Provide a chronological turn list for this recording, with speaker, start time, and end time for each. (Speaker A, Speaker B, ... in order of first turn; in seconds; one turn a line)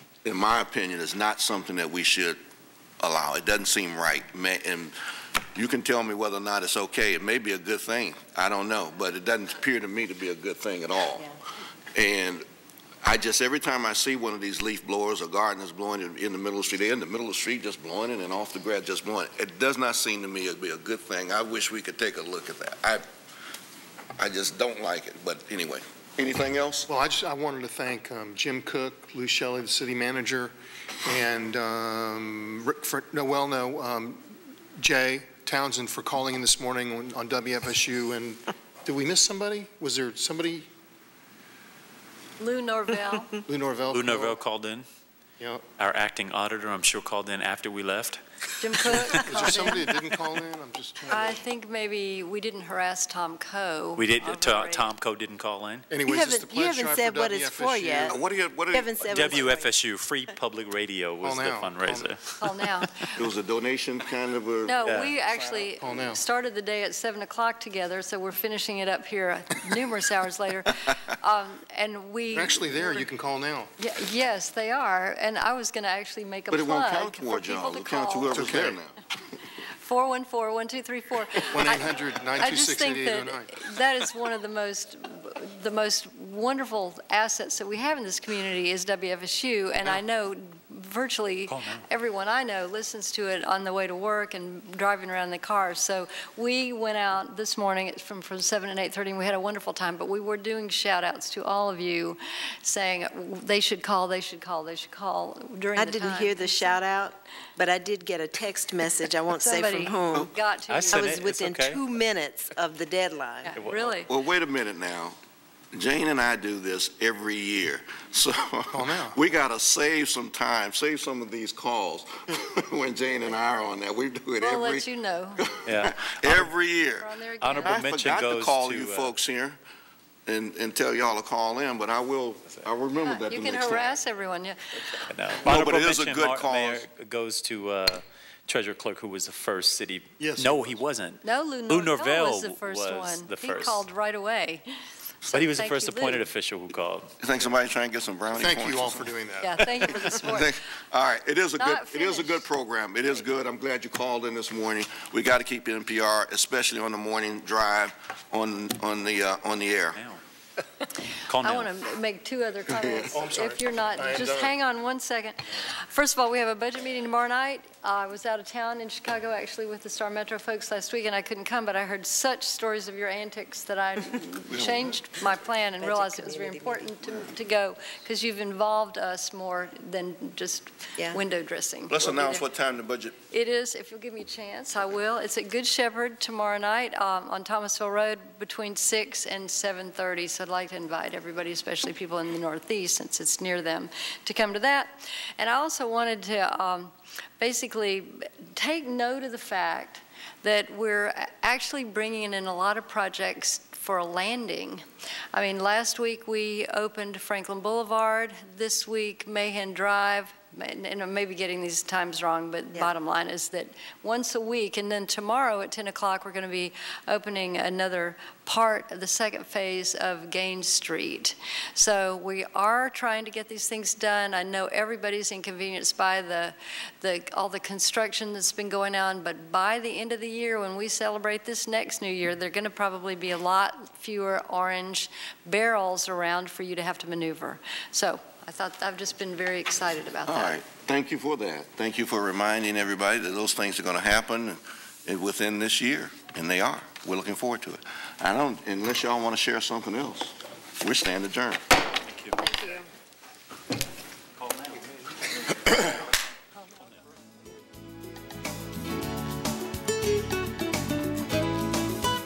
Speaker A: 0.2-2.4
Speaker A: 3.0-4.9
Speaker A: 5.5-11.3
Speaker A: 11.9-12.4
Speaker A: 13.0-23.1
Speaker A: 24.2-26.9
Speaker B: 26.9-34.2
Speaker B: 34.8-40.7
Speaker C: 42.4-43.4
Speaker B: 43.4-44.4
Speaker D: 43.9-44.9
Speaker B: 45.4-45.6
Speaker D: 45.8-48.2
Speaker C: 48.6-50.0
Speaker B: 48.8-51.4
Speaker C: 51.1-54.7
Speaker D: 54.0-55.9
Speaker B: 55.9-58.2
Speaker E: 56.1-58.1
Speaker A: 58.0-59.4
Speaker E: 58.7-59.7
Speaker D: 59.0-62.5
Speaker B: 61.2-62.2
Speaker C: 62.4-63.2
Speaker A: 63.1-65.6
Speaker C: 64.6-73.1
Speaker D: 64.8-65.1
Speaker B: 65.8-66.2
Speaker B: 72.3-73.7
Speaker C: 73.8-78.3
Speaker A: 76.5-79.0
Speaker B: 78.3-78.8
Speaker C: 79.6-107.0
Speaker B: 81.5-83.6
Speaker D: 91.5-91.8
Speaker E: 105.8-110.3
Speaker C: 109.2-111.3
Speaker D: 110.7-111.8
Speaker E: 110.9-113.5
Speaker C: 113.4-114.1
Speaker D: 113.5-114.0
Speaker A: 114.0-115.2
Speaker A: 115.7-129.6
Speaker B: 118.7-119.2
Speaker C: 124.4-125.5
Speaker D: 125.6-126.5
Speaker C: 127.0-127.8
Speaker D: 127.4-129.1
Speaker A: 130.3-134.0
Speaker C: 133.0-134.9
Speaker D: 135.1-143.8
Speaker A: 135.4-136.8
Speaker B: 140.2-140.7
Speaker C: 141.2-144.7
Speaker C: 145.2-146.2
Speaker D: 145.3-147.1
Speaker A: 147.2-149.1
Speaker B: 148.3-149.6
Speaker C: 149.4-150.5
Speaker A: 149.9-160.0
Speaker C: 151.6-152.5
Speaker D: 159.9-160.2
Speaker C: 161.0-182.4
Speaker D: 161.3-161.7
Speaker B: 163.1-164.5
Speaker A: 174.5-174.8
Speaker E: 175.8-176.9
Speaker A: 181.9-183.2
Speaker C: 183.3-240.6
Speaker A: 240.2-251.6
Speaker D: 252.1-252.4